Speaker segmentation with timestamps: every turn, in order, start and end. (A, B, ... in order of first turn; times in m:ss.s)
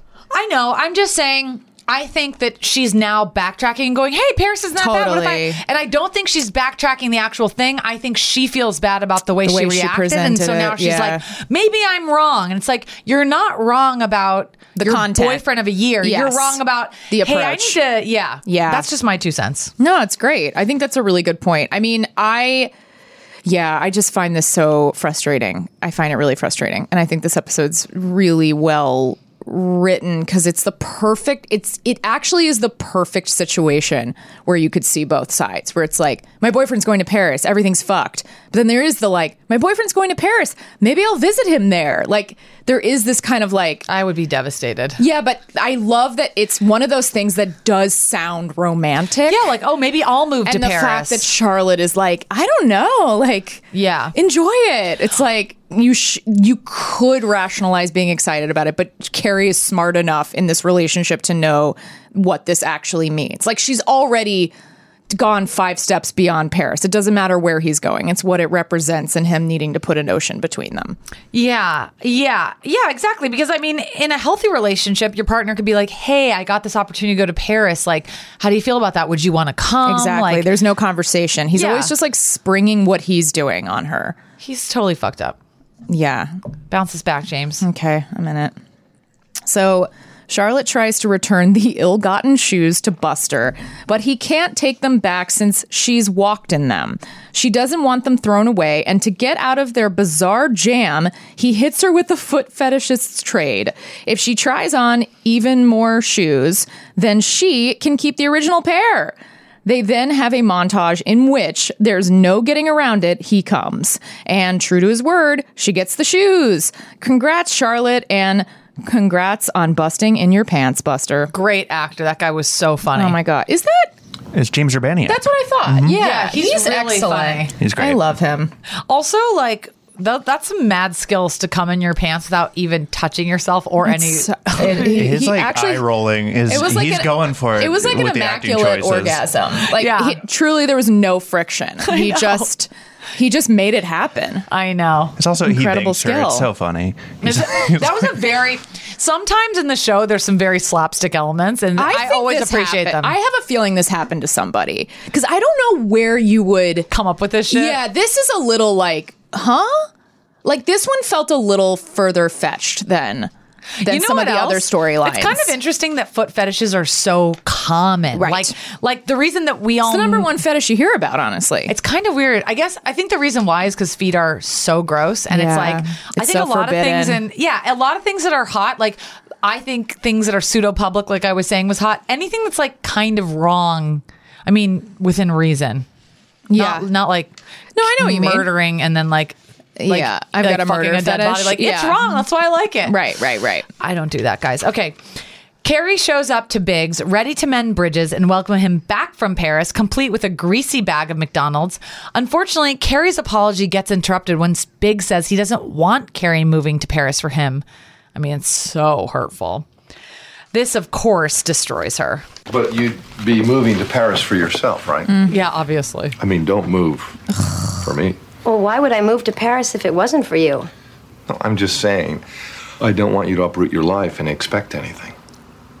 0:00.3-0:19.7 A
0:04.8-0:05.6 B
0:09.4-0:11.2 B
0:14.8-0:15.4 B
0:16.0-0:17.8 B
0:18.4-0:18.9 B
0:19.8-0:22.7 B
0:23.4-0:43.9 B
0:43.9-0:45.0 A
0:45.0-0:49.5 B
0:49.3-0:51.3 A
0:50.4-1:04.5 B
0:53.7-0:54.1 A
1:05.1-1:11.0 B
1:11.3-1:20.5 A
1:19.8-1:24.2 B
1:21.5-1:21.9 A
1:24.4-1:25.4 A
1:25.9-1:26.3 B
1:26.7-1:27.6 A
1:27.6-1:28.5 B
1:29.4-2:01.3 B
2:01.3-2:03.2 A
2:02.9-2:03.9 B
2:04.3-2:06.0 C
2:05.0-2:08.5 B
2:05.8-2:07.5 A
2:07.6-2:08.1 C
2:08.9-2:15.0 A
2:13.8-2:15.9 B
2:14.6-2:19.3 C
2:16.4-2:24.4 B
2:19.7-2:20.2 A
2:21.8-2:22.5 A
2:24.5-2:25.2 A
2:25.2-2:28.1 C
2:25.4-2:26.5 B
2:27.2-2:33.2 A
2:31.8-2:36.9 B
2:36.9-2:37.8 A
2:37.5-2:39.9 B
2:40.4-2:43.3 B
2:43.8-2:50.3 A
2:43.8-2:45.5 B
2:48.1-2:48.5 B
2:49.8-2:51.7 B
2:51.7-3:05.8 A
2:55.3-2:57.2 B
3:06.5-3:06.9 B
3:06.5-3:13.0 A
3:07.7-3:08.5 B
3:09.8-3:12.2 B
3:12.8-3:13.7 B
3:13.8-3:15.0 A
3:15.6-3:29.7 A
3:30.5-3:32.2 A
3:32.5-3:35.1 D
3:35.3-3:36.2 A
3:36.2-3:37.2 D
3:37.8-3:38.2 D
3:38.4-3:40.7 E
3:41.3-3:42.2 D
3:42.8-3:45.2 D